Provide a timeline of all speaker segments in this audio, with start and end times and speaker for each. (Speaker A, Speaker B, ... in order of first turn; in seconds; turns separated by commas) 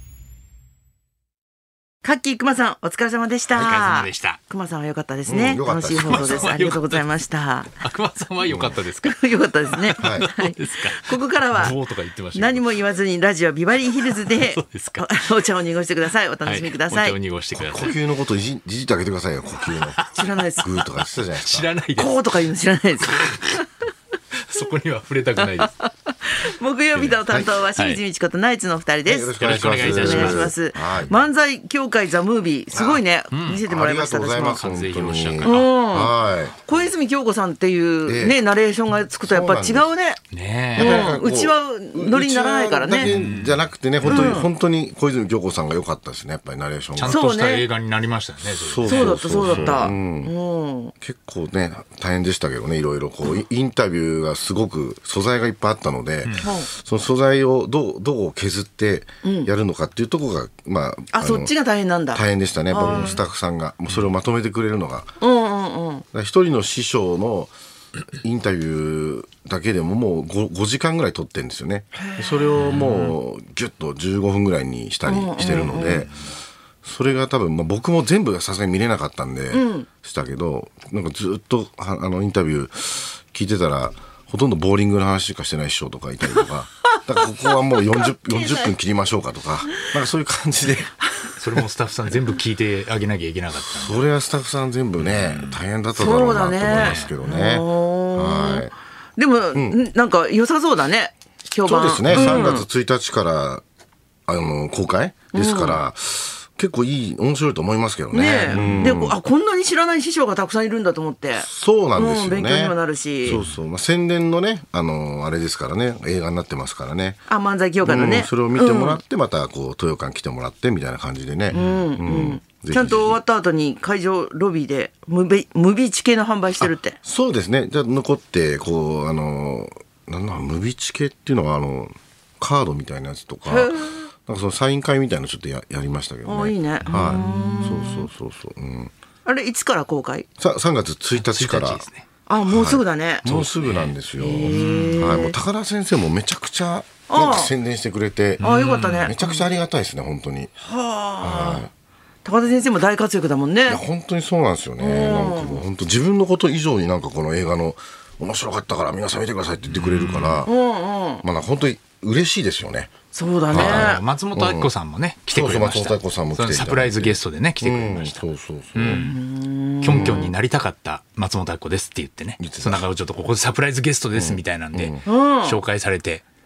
Speaker A: 2.0-7.8, Speaker B: 3.5-4.4, Speaker C: 5.2-6.5, Speaker B: 6.0-7.0, Speaker B: 7.8-12.8, Speaker C: 8.5-8.8, Speaker A: 9.0-11.8, Speaker C: 10.0-10.3, Speaker A: 12.3-17.2, Speaker B: 13.9-15.1, Speaker B: 16.4-17.9, Speaker C: 17.5-20.0, Speaker B: 20.0-20.8, Speaker A: 20.1-20.7, Speaker C: 20.6-21.7, Speaker B: 21.4-22.3, Speaker A: 21.9-23.6, Speaker B: 23.0-23.6, Speaker B: 24.4-25.7, Speaker A: 25.4-34.6, Speaker C: 27.3-27.6, Speaker C: 29.0-31.2, Speaker B: 29.4-31.1, Speaker C: 32.7-33.0, Speaker B: 33.3-33.6, Speaker C: 33.6-36.6, Speaker B: 34.4-35.7, Speaker A: 35.4-40.2, Speaker C: 38.0-38.4, Speaker C: 39.2-39.9, Speaker B: 40.3-41.1, Speaker C: 40.7-47.2, Speaker A: 40.8-43.1, Speaker B: 43.0-44.4, Speaker A: 44.0-44.5, Speaker B: 47.0-49.9, Speaker A: 47.1-47.6, Speaker C: 48.4-50.3, Speaker A: 48.8-50.9, Speaker C: 51.0-61.5, Speaker A: 56.4-56.7, Speaker A: 59.2-59.5, Speaker A: 61.1-63.2, Speaker C: 62.1-65.1, Speaker B: 62.8-63.1, Speaker A: 65.2-66.0, Speaker C: 66.1-67.5, Speaker C: 68.1-76.1, Speaker A: 71.9-72.6, Speaker B: 72.5-73.2, Speaker A: 75.0-76.0, Speaker B: 75.6-76.1, Speaker C: 76.8-90.9, Speaker A: 79.5-79.9, Speaker A: 88.0-88.7, Speaker B: 91.4-94.0, Speaker C: 93.6-98.7, Speaker B: 95.0-95.6, Speaker A: 95.9-102.7, Speaker B: 96.7-97.1, Speaker C: 101.6-103.6, Speaker B: 102.1-102.6, Speaker C: 104.3-109.2, Speaker A: 105.3-105.8, Speaker A: 108.1-113.4, Speaker B: 108.5-108.9, Speaker C: 111.3-117.3, Speaker B: 113.2-113.6, Speaker A: 117.3-119.0, Speaker C: 117.8-123.2, Speaker B: 121.5-121.8, Speaker A: 121.5-127.0, Speaker C: 127.0-133.7, Speaker A: 133.4-134.1, Speaker C: 134.2-138.9, Speaker A: 136.2-138.1, Speaker B: 136.8-137.6, Speaker A: 139.2-140.3, Speaker C: 140.4-141.8, Speaker B: 141.1-142.0, Speaker A: 142.3-143.3, Speaker C: 142.4-150.5, Speaker B: 143.2-145.2, Speaker A: 144.2-145.3, Speaker A: 147.1-147.5, Speaker B: 148.4-149.1, Speaker A: 148.4-149.5, Speaker A: 150.6-151.7, Speaker C: 151.2-151.7, Speaker A: 152.2-153.8, Speaker C: 153.7-160.5, Speaker A: 154.8-155.6, Speaker B: 159.6-160.5, Speaker A: 160.4-161.2, Speaker C: 161.2-162.9, Speaker A: 163.1-164.0, Speaker C: 163.5-164.7, Speaker B: 163.5-168.2, Speaker C: 165.3-169.1, Speaker B: 168.7-169.1, Speaker A: 168.9-170.3, Speaker B: 169.8-176.2, Speaker C: 169.8-170.3, Speaker C: 172.4-172.8, Speaker C: 174.1-175.0, Speaker A: 175.1-175.6